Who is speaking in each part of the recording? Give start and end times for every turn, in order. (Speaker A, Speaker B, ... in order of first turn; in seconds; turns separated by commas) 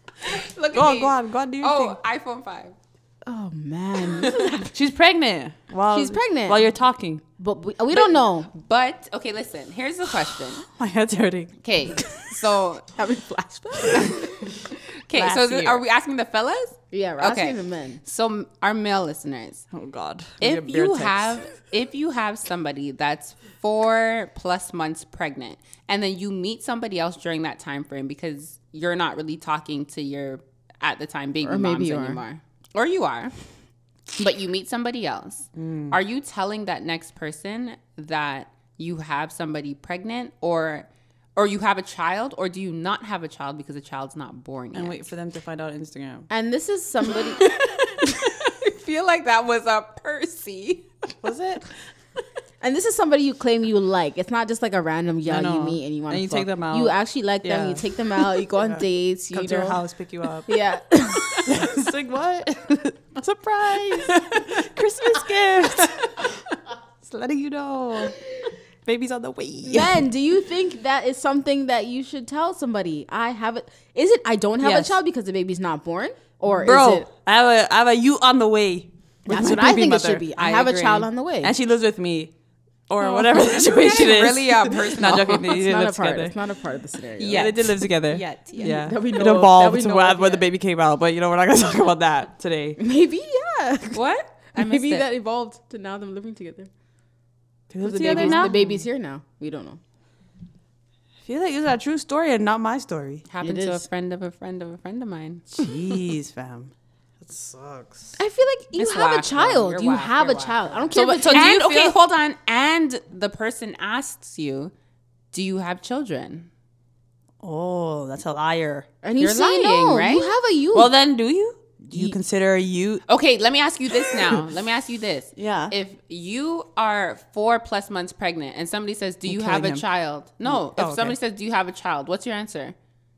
Speaker A: 0.2-2.8, Speaker B: 0.7-2.0, Speaker C: 3.3-4.8, Speaker B: 4.7-7.2, Speaker C: 5.9-6.7, Speaker C: 7.4-8.5, Speaker A: 7.9-10.7, Speaker B: 10.6-11.5, Speaker A: 11.6-12.9, Speaker C: 12.9-14.4, Speaker A: 13.9-19.6, Speaker B: 15.1-15.8, Speaker C: 16.9-18.0, Speaker B: 19.7-21.5, Speaker A: 20.4-33.3, Speaker C: 31.4-32.2, Speaker A: 34.2-45.0, Speaker B: 35.6-36.0, Speaker B: 44.7-46.3, Speaker C: 46.3-47.6, Speaker A: 47.1-50.9, Speaker B: 51.2-51.7, Speaker C: 52.6-59.8, Speaker B: 55.3-60.6, Speaker C: 60.5-61.5, Speaker B: 61.4-66.4, Speaker B: 67.0-68.2, Speaker B: 68.8-70.0, Speaker C: 69.6-77.1, Speaker B: 74.6-75.0, Speaker B: 76.6-80.3, Speaker C: 79.3-81.5, Speaker A: 80.4-81.1, Speaker B: 81.4-82.3, Speaker B: 82.9-86.3, Speaker A: 83.0-85.6, Speaker C: 85.5-87.6, Speaker A: 87.2-88.8, Speaker B: 87.3-92.8, Speaker C: 88.6-90.5, Speaker C: 92.8-94.0, Speaker A: 93.9-95.1, Speaker C: 94.5-96.7, Speaker B: 97.7-98.5, Speaker C: 97.8-99.8, Speaker A: 98.0-98.8, Speaker B: 101.2-103.3, Speaker A: 103.3-105.9, Speaker C: 103.4-103.8, Speaker B: 105.5-108.2, Speaker C: 108.2-111.6, Speaker A: 108.8-114.7, Speaker B: 111.0-112.0, Speaker A: 115.3-116.5, Speaker B: 117.4-118.9, Speaker C: 119.0-120.9, Speaker A: 119.2-120.3, Speaker B: 120.7-123.0, Speaker A: 123.1-132.8, Speaker B: 124.1-124.5, Speaker B: 125.4-125.7, Speaker B: 129.3-129.8, Speaker B: 130.5-131.2